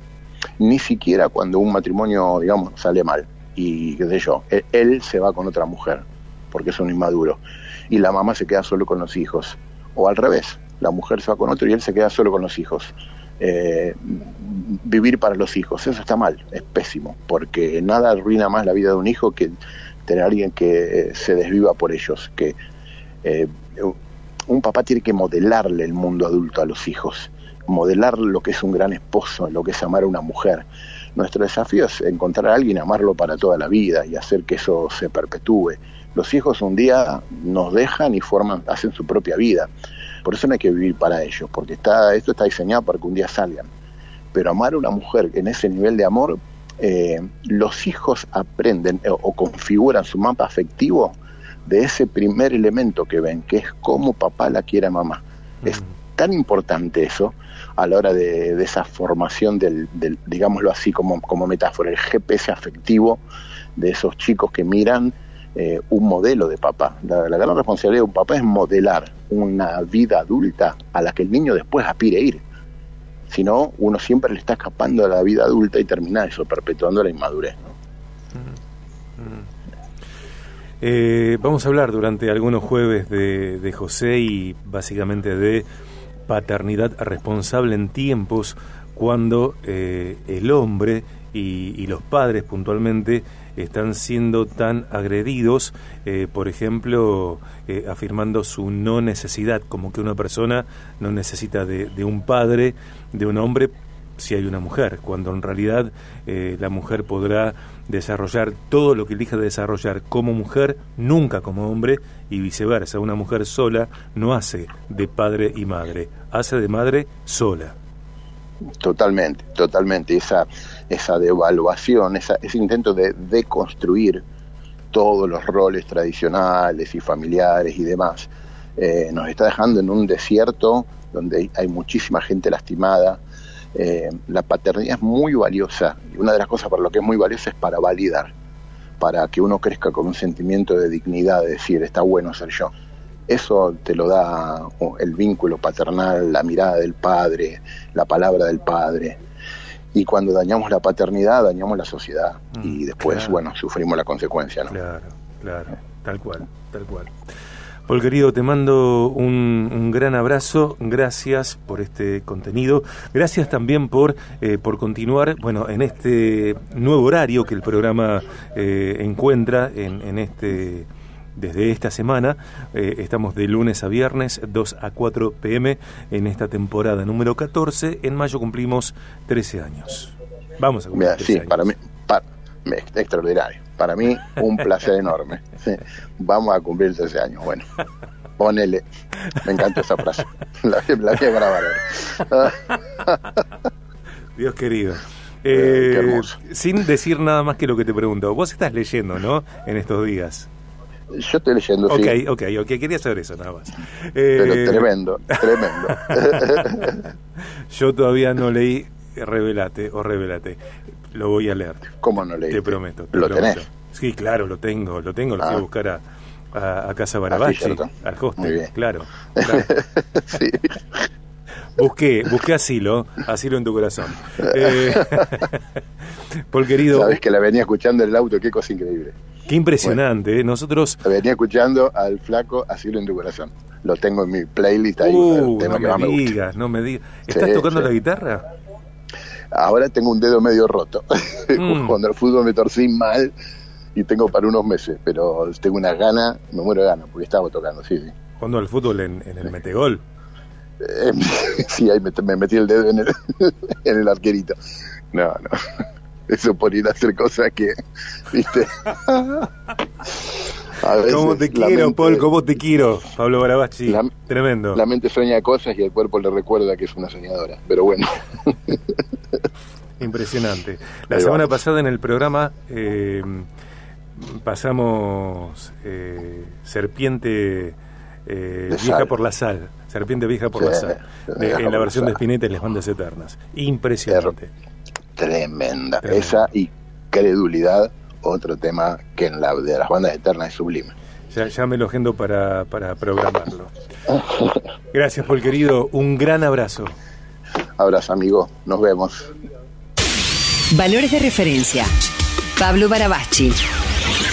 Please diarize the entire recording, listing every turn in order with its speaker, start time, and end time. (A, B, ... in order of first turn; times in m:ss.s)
0:00.6-0:22.6 A
0:23.2-0:24.0 A
0:24.5-0:39.7 A
0:40.2-0:43.7 A
0:44.3-1:03.2 A
1:03.8-1:12.4 A
1:13.3-1:17.8 A
1:19.2-1:19.5 B
1:20.8-1:25.7 B
1:26.3-1:57.8 B
1:58.8-2:04.2 A
2:04.9-2:13.2 A
2:13.8-2:18.3 A
2:19.0-2:22.7 A
2:23.3-2:29.2 A
2:29.9-2:34.7 A
2:32.6-2:33.4 B
2:34.7-2:37.1 B
2:37.9-3:01.6 B
3:00.9-3:07.7 A
3:08.4-3:08.8 A
3:09.4-3:13.2 A
3:14.4-3:20.5 B
3:15.5-3:16.4 A
3:21.1-3:22.2 A
3:21.9-3:27.1 B
3:24.4-3:27.0 A
3:27.7-3:30.6 B
3:31.1-3:36.0 B
3:32.0-3:33.6 A
3:36.5-3:39.7 B
3:37.3-3:38.7 A
3:39.4-3:40.8 A
3:41.8-3:45.6 B
3:44.5-3:45.3 A
3:46.5-3:47.2 B
3:46.9-3:49.2 A
3:49.5-3:51.0 B
3:51.0-3:56.3 A
3:55.0-3:58.5 B
3:57.3-3:57.9 A
3:59.5-4:03.3 A
4:01.6-4:02.0 B
4:04.0-4:08.1 A
4:08.4-4:10.0 B
4:10.8-4:14.6 A
4:15.1-4:15.5 A
4:16.3-4:17.7 A
4:18.3-4:19.5 A
4:20.8-4:22.3 A
4:20.9-4:24.8 B
4:23.9-4:24.1 A
4:24.7-4:29.0 A
4:30.0-4:33.5 B
4:31.1-4:31.5 A
4:34.2-4:44.5 B
4:38.7-4:39.1 A
4:40.6-4:42.2 A
4:44.1-4:44.4 A
4:45.2-4:51.0 A
4:46.0-4:46.5 B
4:51.3-4:53.7 B
4:54.1-4:54.5 A
4:54.9-4:56.9 B
4:57.8-4:59.3 A
5:00.7-5:01.9 C
5:02.6-5:03.6 C